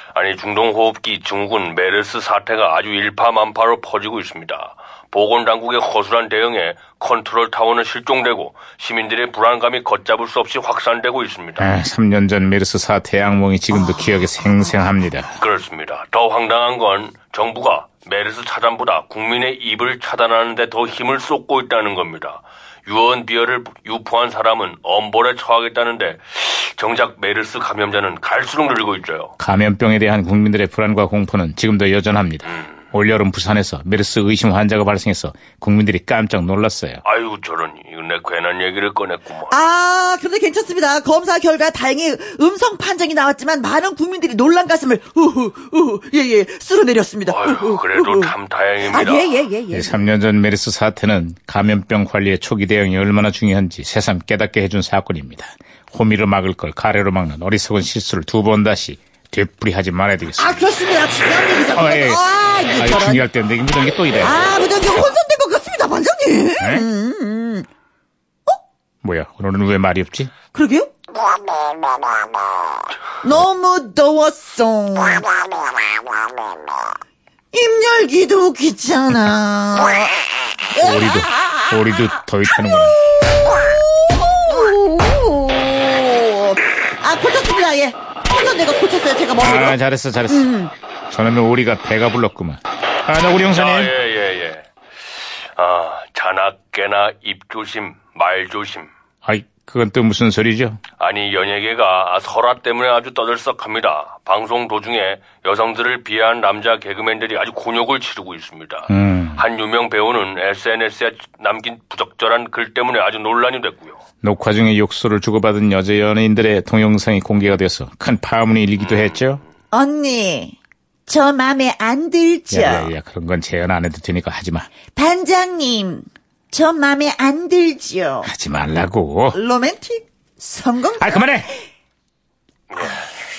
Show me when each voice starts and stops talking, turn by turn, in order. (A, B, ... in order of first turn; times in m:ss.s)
0:00.1-0:11.7 A
0:11.6-0:15.4 B
0:13.7-0:14.3 C
0:15.4-0:29.3 A
0:29.4-0:37.0 B
0:37.0-0:39.6 A
0:39.5-0:48.3 C
0:47.3-0:49.4 A
0:48.8-0:50.1 C
0:49.7-1:00.6 B
1:00.4-1:03.2 C
1:01.8-1:02.2 B
1:02.8-1:04.6 B
1:04.2-1:07.7 C
1:06.6-1:06.9 B
1:09.0-1:10.3 B
1:10.5-1:10.9 C
1:13.2-1:15.7 C
1:17.5-1:21.7 C
1:20.8-1:23.0 B
1:24.1-1:30.7 C
1:29.4-1:30.5 B
1:31.1-1:33.9 B
1:33.5-1:34.7 A
1:35.6-1:38.9 A
1:39.2-1:40.8 B
1:41.0-1:54.0 A
1:48.9-1:49.4 B
1:54.2-1:59.4 B
1:58.8-1:59.2 A
1:59.7-2:00.6 C
2:01.1-2:02.9 C
2:02.5-2:04.7 B
2:04.9-2:08.3 C
2:08.2-2:09.4 B
2:09.3-2:11.6 C
2:11.0-2:11.5 B
2:12.7-2:13.1 A